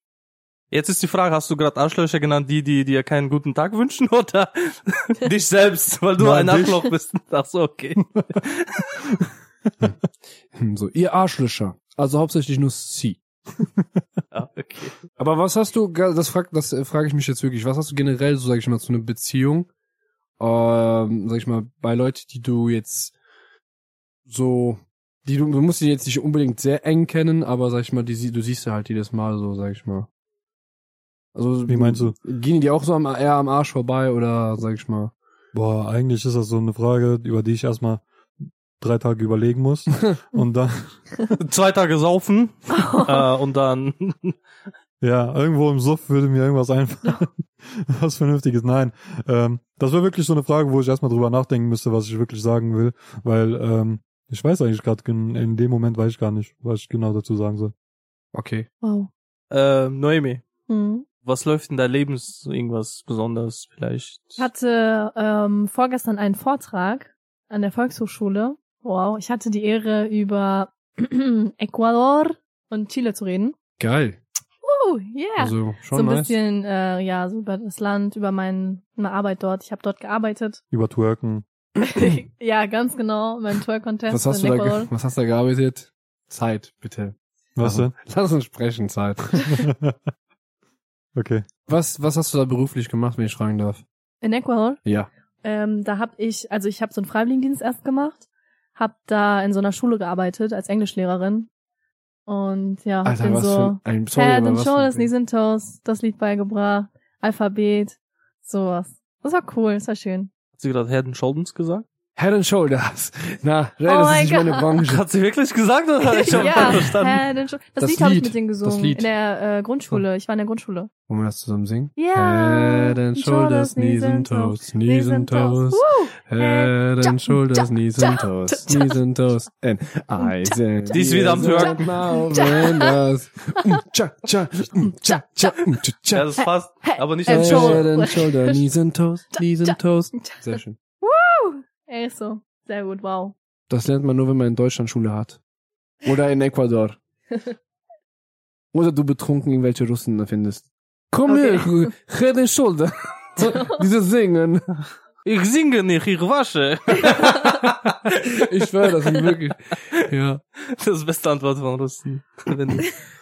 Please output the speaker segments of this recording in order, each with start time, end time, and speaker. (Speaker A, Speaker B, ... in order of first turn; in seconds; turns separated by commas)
Speaker A: 0.7-9.1, Speaker B: 6.2-6.9, Speaker C: 10.5-13.2, Speaker A: 14.3-15.0, Speaker C: 15.2-19.7, Speaker C: 20.4-23.1, Speaker C: 24.3-30.1, Speaker C: 31.4-35.1, Speaker B: 31.7-32.1, Speaker B: 35.5-38.0, Speaker B: 38.8-41.0, Speaker A: 41.4-44.4, Speaker D: 42.8-43.2, Speaker B: 45.0-57.7, Speaker C: 58.3-58.7, Speaker D: 58.8-59.1, Speaker A: 59.5-60.4, Speaker D: 60.7-61.1, Speaker A: 61.2-64.5, Speaker D: 64.4-73.6, Speaker C: 73.8-74.2, Speaker D: 74.6-80.6, Speaker C: 75.4-76.3, Speaker B: 80.7-81.5, Speaker D: 81.8-84.9, Speaker C: 84.1-89.5, Speaker B: 87.6-87.9, Speaker B: 89.5-90.0, Speaker B: 91.1-91.5, Speaker C: 91.7-93.8, Speaker D: 94.2-94.8, Speaker D: 95.4-98.2, Speaker D: 98.8-101.5, Speaker D: 102.3-110.3, Speaker C: 103.0-105.1, Speaker A: 110.6-111.8, Speaker C: 112.2-115.0, Speaker D: 113.9-114.7, Speaker A: 114.9-117.2, Speaker D: 116.1-120.9, Speaker C: 116.3-116.7, Speaker C: 117.8-119.1, Speaker C: 121.1-136.4, Speaker D: 122.0-129.0, Speaker D: 130.2-132.9, Speaker A: 130.9-131.9, Speaker A: 136.1-137.9, Speaker D: 136.4-138.6, Speaker C: 137.3-140.8, Speaker D: 139.4-140.5, Speaker D: 141.0-143.3, Speaker C: 143.7-145.4, Speaker C: 146.0-147.0, Speaker C: 148.7-154.7, Speaker D: 151.3-151.7, Speaker D: 153.4-153.8, Speaker A: 155.2-157.7, Speaker C: 157.1-160.4, Speaker A: 160.6-163.0